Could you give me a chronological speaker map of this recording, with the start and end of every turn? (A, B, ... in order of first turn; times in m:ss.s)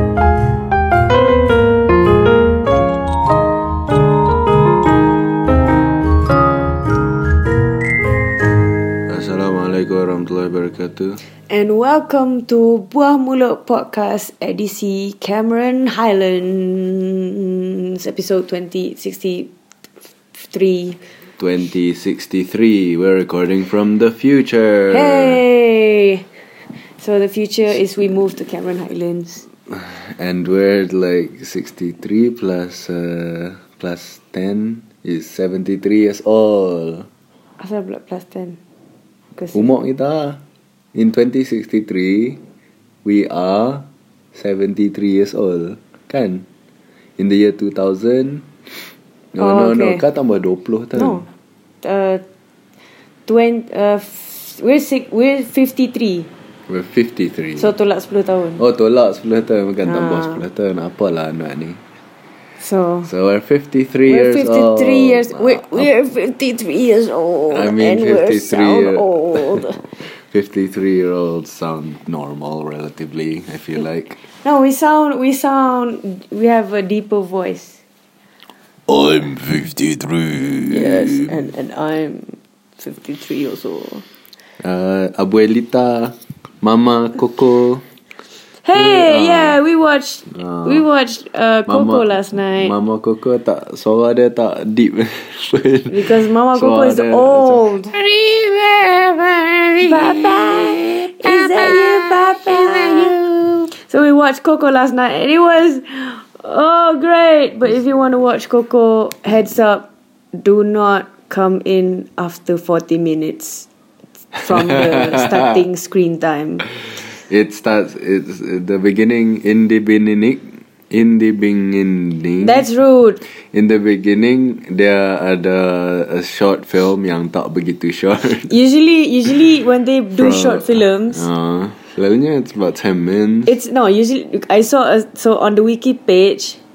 0:09.1-0:11.2 A
0:11.5-0:19.5 B
0:20.4-0:21.0 B
0:21.4-0:25.4 A
0:24.9-0:26.2 B
0:27.0-0:29.4 B
0:29.7-0:37.1 A
0:37.6-0:38.6 B
0:39.4-0:39.6 B
0:39.5-0:40.4 A
0:40.9-0:42.4 A
0:43.0-0:46.4 A
0:47.2-0:48.5 A
0:49.3-0:51.2 A
0:49.4-0:50.0 B
0:50.9-0:51.3 B
0:51.8-0:52.2 B
0:53.3-0:56.3 B
0:56.7-0:57.7 A
0:57.6-0:58.6 B
0:58.6-1:01.8 A
0:59.8-1:00.4 B
1:02.6-1:03.1 B
1:03.0-1:05.9 A
1:04.0-1:09.8 B
1:07.5-1:14.2 A
1:14.4-1:17.8 B
1:18.9-1:21.3 A
1:20.7-1:24.0 B
1:24.6-1:27.8 A
1:28.6-1:32.8 B
1:28.7-1:29.6 A
1:30.3-1:30.8 A
1:31.7-1:43.7 A
1:35.9-1:37.9 B
1:39.8-1:43.1 B
1:43.7-1:53.7 B
1:54.3-1:55.6 A
1:54.3-1:56.6 B
1:57.3-2:02.6 A
2:02.4-2:03.2 B
2:03.5-2:08.5 A
2:08.5-2:11.3 B
2:10.1-2:13.5 A
2:13.4-2:16.6 B